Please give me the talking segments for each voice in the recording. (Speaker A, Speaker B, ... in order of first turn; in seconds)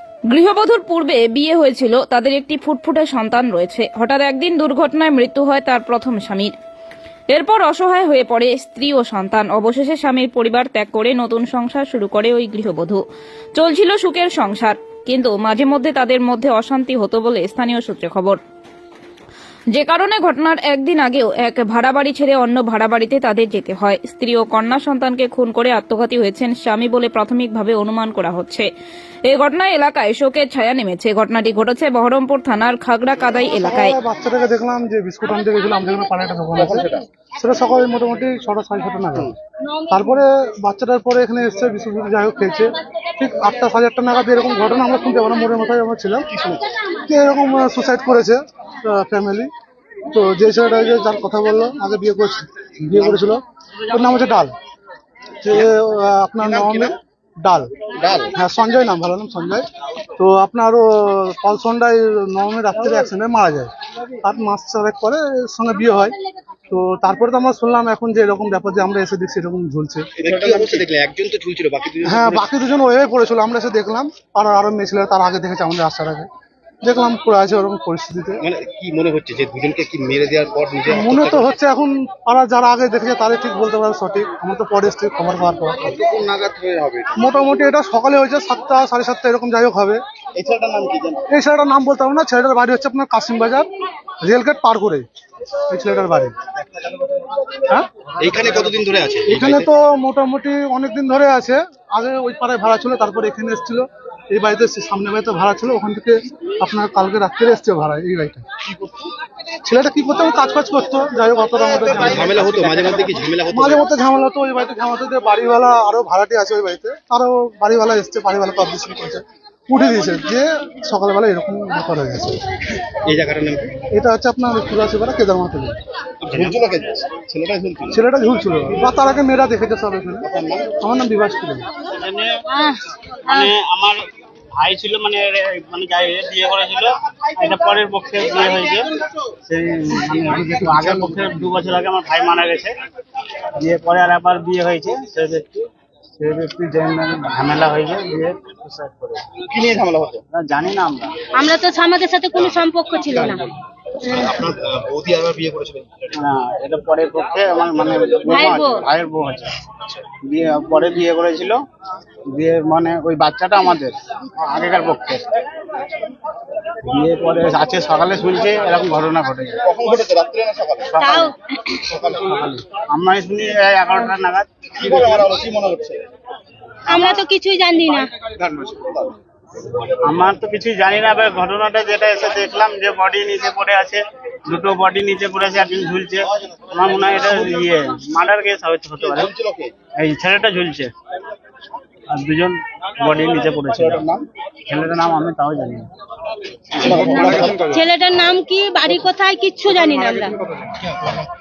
Speaker A: 0.3-6.5, 7.3-13.0, 13.6-18.4, 19.7-28.7, 29.3-34.0
Speaker B: 33.5-39.3, 39.9-46.3, 47.0-49.5, 50.1-54.5, 55.4-57.7, 58.3-59.7, 60.2-66.2, 66.7-70.1, 72.0-76.3, 76.8-78.4, 80.9-86.0, 87.2-90.0, 91.3-93.7, 94.2-95.1, 95.7-96.3, 99.3-108.5, 109.6-112.9, 113.5-122.4, 123.9-125.8, 127.9-131.7
Speaker C: 36.6-37.0, 46.3-46.6, 53.0-53.3, 56.4-56.9, 58.0-58.4, 70.2-72.5, 78.4-81.5, 85.9-87.2, 90.4-91.2, 98.2-99.7, 108.8-109.1, 111.9-113.9, 123.1-123.8, 126.2-128.0, 130.2-130.7, 149.5-150.2, 153.1-153.4, 154.0-156.2, 169.6-171.0, 171.9-172.3, 174.8-176.0, 178.3-179.1, 189.1-189.7, 193.7-194.3, 196.8-197.8
Speaker D: 70.3-70.8, 126.3-126.6, 131.8-132.3, 133.3-134.0, 134.6-138.8, 139.5-142.7, 143.6-145.7, 146.2-149.4, 150.3-151.1, 156.2-159.6, 160.1-161.6, 162.3-165.2, 166.9-169.6, 171.0-171.3, 172.0-175.1, 176.9-177.2, 180.0-189.3, 190.0-190.9, 192.1-194.1, 194.7-195.9
Speaker E: 132.5-132.8, 151.4-153.4, 158.3-158.7, 176.9-178.1, 197.0-200.3